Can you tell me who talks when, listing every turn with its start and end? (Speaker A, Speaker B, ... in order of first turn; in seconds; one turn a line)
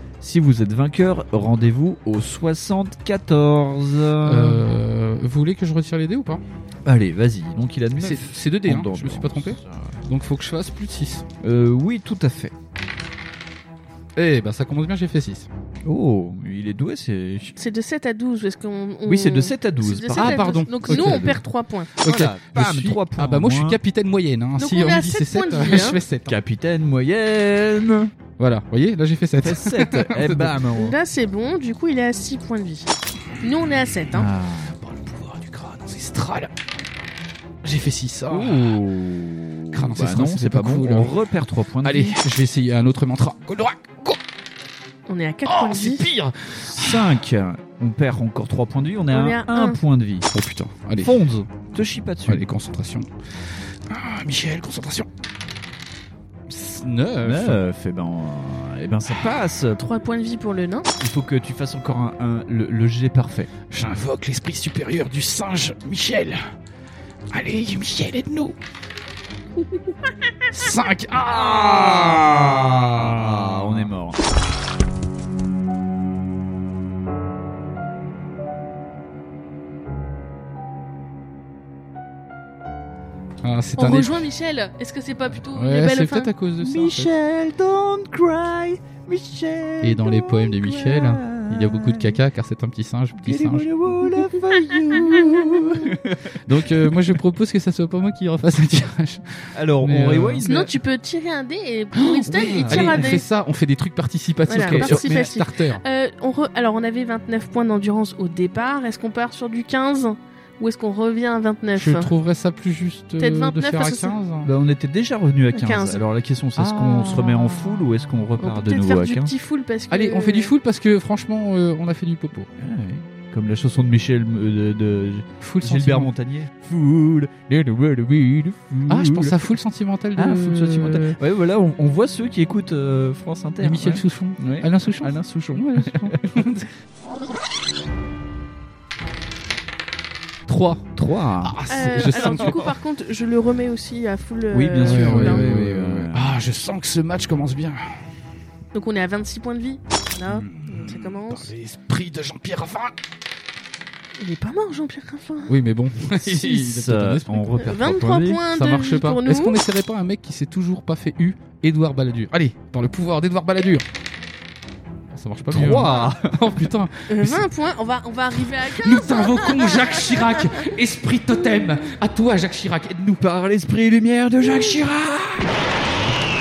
Speaker A: 0.2-4.6
Speaker B: 4.2-6.4
Speaker A: 6.8-10.0
Speaker B: 8.0-11.3
Speaker A: 11.4-12.5
Speaker B: 14.2-15.5
Speaker A: 15.8-17.5
Speaker C: 17.6-21.9
Speaker A: 19.1-21.4
Speaker B: 20.1-21.4
Speaker A: 22.0-23.8
Speaker B: 22.0-26.4
Speaker C: 24.6-26.0
Speaker A: 26.2-28.1
Speaker B: 28.4-30.6
Speaker A: 29.4-31.0
Speaker C: 30.7-34.3
Speaker A: 34.1-34.8
Speaker B: 34.7-36.5
Speaker B: 37.6-38.8
Speaker A: 38.3-42.2
Speaker B: 39.7-41.1
Speaker B: 41.8-44.2
Speaker C: 45.1-46.1
Speaker B: 45.4-47.2
Speaker A: 46.6-50.3
Speaker C: 49.1-49.8
Speaker B: 50.3-51.2
Speaker A: 51.0-52.4
Speaker B: 52.2-53.1
Speaker B: 53.9-55.1
Speaker B: 56.5-57.6
Speaker A: 57.2-59.8
Speaker C: 59.8-60.9
Speaker A: 61.0-63.5
Speaker B: 63.7-66.4
Speaker B: 67.3-68.6
Speaker B: 70.5-73.9
Speaker A: 73.0-74.2
Speaker B: 83.4-84.2
Speaker C: 83.8-86.3
Speaker B: 85.4-87.1
Speaker A: 86.6-92.2
Speaker B: 89.8-93.7
Speaker A: 93.2-96.5
Speaker B: 95.2-100.5
Speaker A: 99.5-100.7
Speaker C: 100.4-103.2
Speaker B: 101.9-105.8
Speaker A: 102.6-103.2
Speaker C: 104.5-112.1
Speaker A: 104.5-105.3
Speaker B: 111.7-114.5
Speaker C: 113.2-114.2
Speaker A: 114.4-119.3
Speaker C: 115.5-116.0
Speaker B: 116.5-117.8
Speaker C: 118.4-120.5
Speaker B: 119.9-122.5
Speaker A: 122.6-129.5
Speaker B: 125.4-126.1
Speaker B: 128.9-131.2
Speaker A: 130.2-136.4
Speaker B: 133.6-136.7
Speaker B: 140.5-140.8
Speaker A: 140.9-142.6
Speaker B: 141.4-142.7
Speaker C: 141.7-145.4
Speaker A: 144.5-146.3
Speaker B: 144.8-148.0
Speaker C: 148.7-151.5
Speaker B: 150.3-152.9
Speaker C: 154.2-155.6
Speaker B: 155.5-157.7
Speaker A: 156.1-158.4
Speaker C: 157.6-159.6
Speaker B: 158.4-163.8
Speaker B: 165.1-167.5
Speaker A: 165.5-166.5
Speaker C: 167.1-170.6
Speaker B: 168.5-173.2
Speaker A: 173.2-175.5